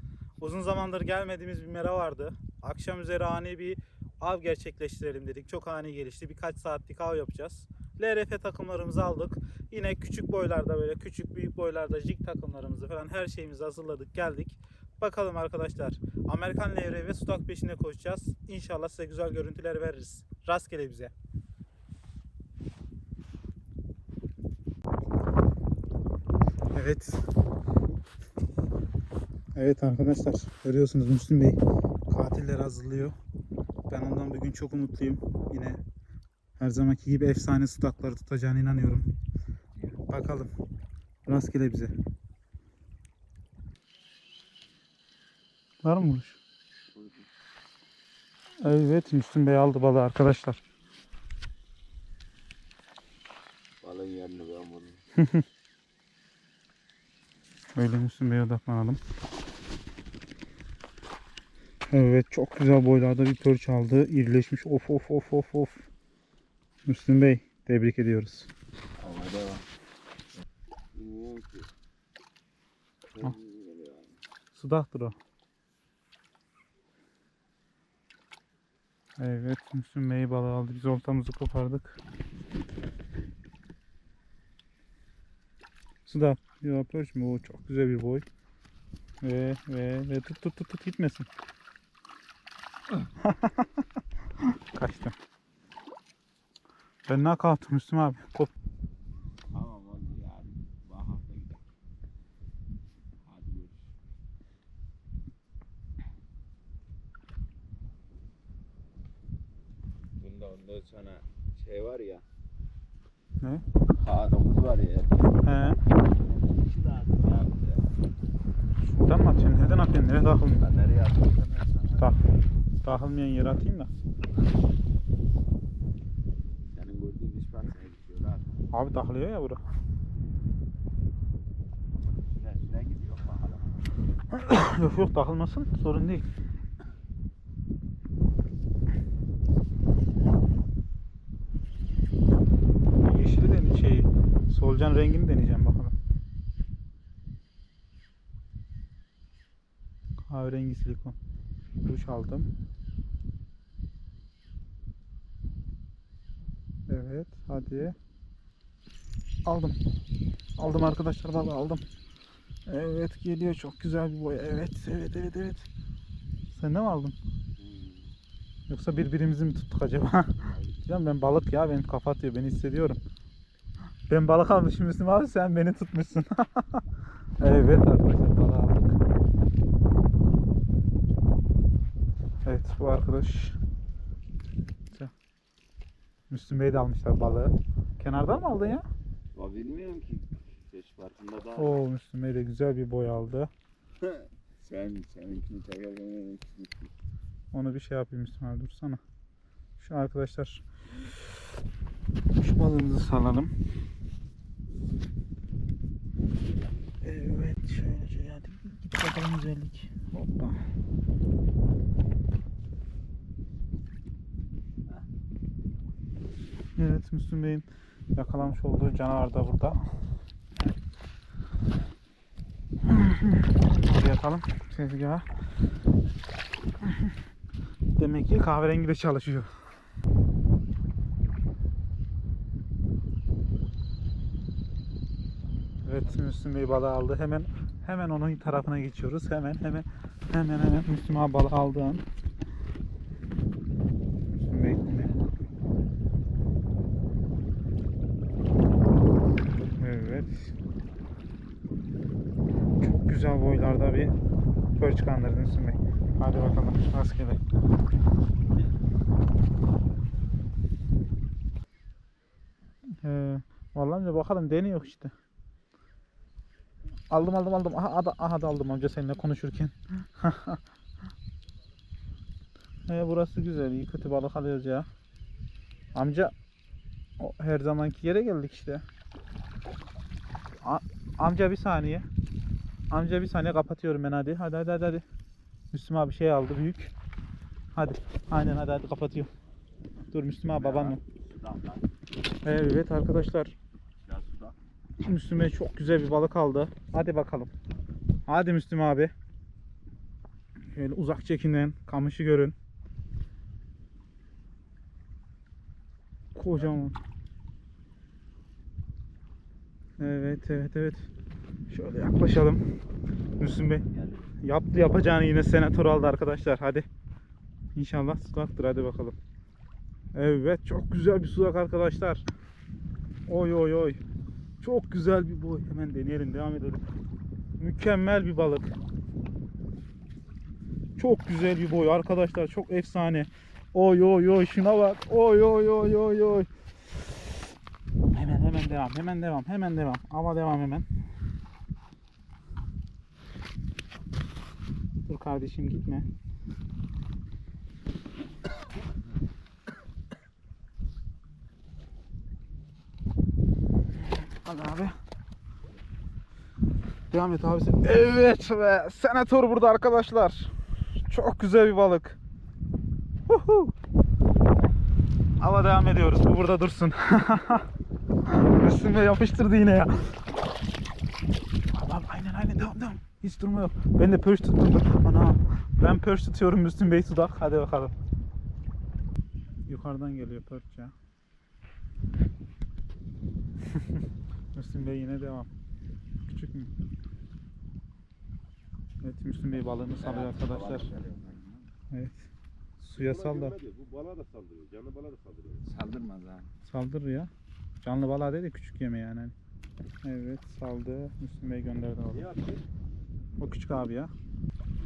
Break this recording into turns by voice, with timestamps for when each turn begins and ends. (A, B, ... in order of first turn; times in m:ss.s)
0:00.4-0:21.1 A
0:26.7-0:27.2 A
0:29.5-0:33.1 A
0:33.9-0:35.8 A
0:36.6-0:39.0 A
0:40.1-0:40.5 A
0:41.2-0:41.9 A
0:45.8-0:46.4 A
0:46.9-0:47.3 B
0:48.6-0:50.6 A
0:53.8-0:55.0 B
0:55.2-0:55.4 A
0:57.7-0:59.0 A
1:01.9-1:05.9 A
1:06.8-1:08.5 A
1:09.0-1:09.6 B
1:10.9-1:11.7 B
1:13.1-1:14.2 B
1:14.5-1:15.2 A
1:19.2-1:22.0 A
1:26.0-1:28.2 A
1:29.2-1:31.3 A
1:33.2-1:33.8 A
1:34.4-1:35.1 A
1:37.0-1:38.5 A
1:39.5-1:41.6 B
1:43.2-1:43.9 B
1:50.2-1:52.2 B
1:53.9-1:55.3 B
1:55.4-1:55.8 A
1:56.0-1:57.9 B
1:58.8-2:00.6 A
2:00.6-2:02.2 B
2:02.8-2:03.9 A
2:06.7-2:08.6 B
2:08.7-2:09.6 A
2:11.9-2:13.8 B
2:14.3-2:16.2 A
2:23.0-2:25.9 A
2:30.3-2:31.2 A
2:31.8-2:32.5 A
2:36.9-2:38.0 A
2:39.4-2:39.8 A
2:40.6-2:41.8 A
2:42.7-2:45.7 A
2:46.5-2:47.2 A
2:47.6-2:48.2 B
2:48.7-2:53.0 A
2:50.4-2:50.8 B
2:54.1-2:56.8 A
2:57.4-2:59.0 A
3:02.4-3:03.6 A
3:06.3-3:08.8 A
3:09.3-3:11.8 B
3:11.6-3:13.5 A
3:14.0-3:16.9 B
3:17.5-3:19.0 A
3:19.8-3:20.6 A
3:22.4-3:23.5 A
3:27.0-3:30.6 A
3:36.8-3:39.8 A
3:42.8-3:45.2 A
3:46.8-3:47.1 A
3:48.0-3:49.5 A
3:55.8-4:02.0 A
4:04.4-4:05.1 A
4:09.8-4:10.5 A
4:12.8-4:14.1 A
4:14.8-4:17.4 A
4:19.7-4:20.4 B
4:23.0-4:25.1 A
4:27.1-4:30.6 A
4:32.9-4:34.9 A
4:35.9-4:36.3 A
4:37.2-4:38.8 A
4:40.6-4:42.0 A
4:42.9-4:45.0 A
4:45.7-4:46.9 A
4:47.7-4:49.3 A
4:50.1-4:51.0 A
4:50.5-4:51.9 B
4:52.4-4:53.5 A
4:54.0-4:54.6 B
4:55.0-4:57.5 A
4:58.3-4:59.1 A
5:00.6-5:02.5 A
5:06.3-5:07.0 A
5:10.0-5:11.1 A
5:11.7-5:12.6 A
5:13.4-5:13.8 A
5:13.8-5:14.3 B
5:14.4-5:16.9 A
5:17.7-5:19.2 A
5:20.1-5:22.2 A
5:23.3-5:24.0 A
5:24.6-5:26.9 A
5:27.6-5:28.7 A
5:31.0-5:36.5 A
5:38.1-5:40.8 A
5:45.1-5:46.1 A
5:54.0-5:55.0 A
5:57.1-6:02.2 A
6:03.3-6:03.7 A
6:05.4-6:07.7 A
6:08.2-6:10.1 A
6:11.7-6:17.9 A
6:19.7-6:20.9 A
6:23.7-6:24.0 A
6:24.5-6:25.5 A
6:26.3-6:26.7 A
6:29.0-6:30.9 A
6:29.9-6:31.7 B
6:31.9-6:32.3 A
6:32.8-6:33.6 A
6:33.0-6:35.6 C
6:35.5-6:36.5 B
6:36.7-6:37.3 A
6:37.8-6:39.3 A
6:40.0-6:42.3 A
6:42.3-6:42.6 C
6:43.4-6:44.1 A